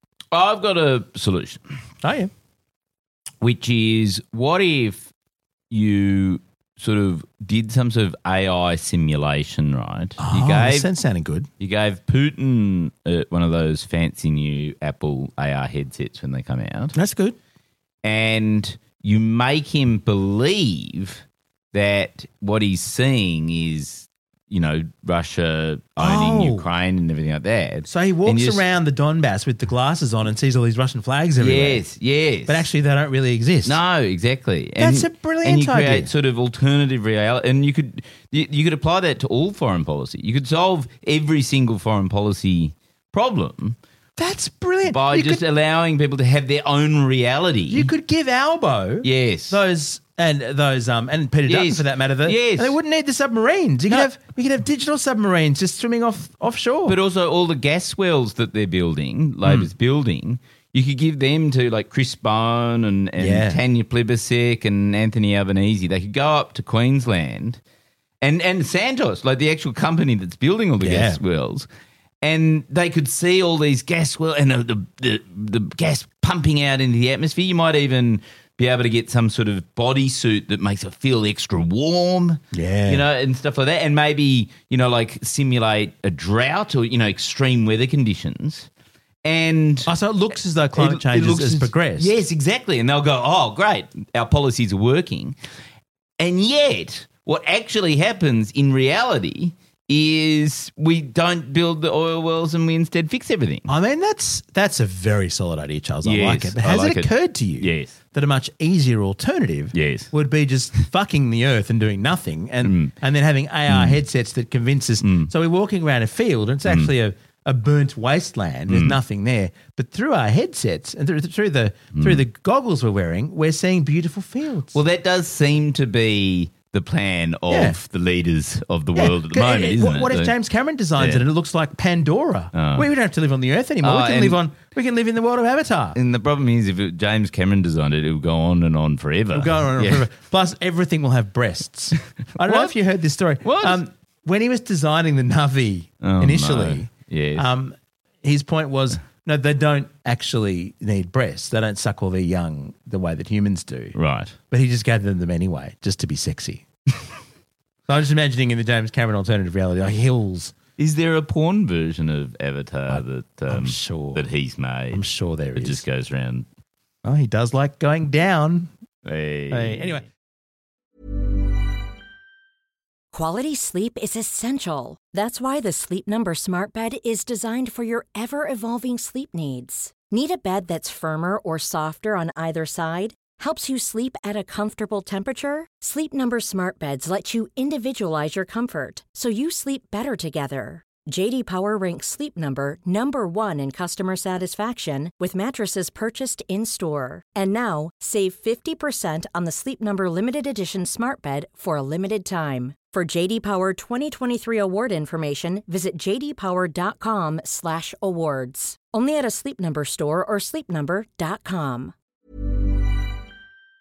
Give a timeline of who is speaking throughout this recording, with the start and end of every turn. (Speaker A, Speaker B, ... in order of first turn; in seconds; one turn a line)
Speaker A: 0.3-1.6
Speaker B: 2.0-2.3
Speaker A: 3.4-5.1
Speaker A: 5.7-10.9
Speaker B: 10.2-11.5
Speaker A: 11.6-16.9
Speaker B: 16.9-17.4
Speaker A: 18.0-28.6
Speaker B: 26.0-26.6
Speaker B: 27.9-31.8
Speaker A: 31.4-32.7
Speaker B: 32.5-33.8
Speaker A: 33.6-43.8
Speaker B: 34.8-36.1
Speaker B: 44.2-45.4
Speaker A: 44.9-47.9
Speaker B: 47.7-57.0
Speaker A: 49.0-49.6
Speaker A: 51.5-52.8
Speaker A: 56.9-67.6
Speaker B: 59.4-59.7
Speaker B: 63.2-63.6
Speaker A: 68.2-71.7
Speaker B: 70.8-71.2
Speaker A: 72.2-88.7
Speaker B: 82.5-83.0
Speaker A: 89.2-89.9
Speaker B: 89.8-92.1
Speaker A: 90.8-95.3
Speaker A: 96.2-103.7
Speaker B: 103.7-124.8
Speaker A: 106.0-108.0
Speaker A: 109.7-110.1
Speaker A: 112.6-112.9
Speaker A: 113.7-114.0
Speaker A: 115.0-115.3
Speaker A: 118.7-119.0
Speaker A: 121.9-122.2
Speaker A: 124.7-130.3
Speaker B: 127.5-127.8
Speaker B: 128.9-136.0
Speaker A: 131.0-131.2
Speaker A: 132.5-132.9
Speaker A: 133.8-134.4
Speaker A: 135.9-140.0
Speaker B: 139.3-153.9
Speaker A: 142.3-142.7
Speaker A: 143.4-143.8
Speaker A: 146.0-147.5
Speaker A: 153.9-154.4
Speaker B: 154.5-156.7
Speaker B: 157.9-160.5
Speaker A: 160.8-166.4
Speaker B: 162.9-164.2
Speaker B: 164.9-165.8
Speaker B: 167.0-168.7
Speaker A: 169.0-170.0
Speaker B: 169.5-170.1
Speaker C: 173.1-211.9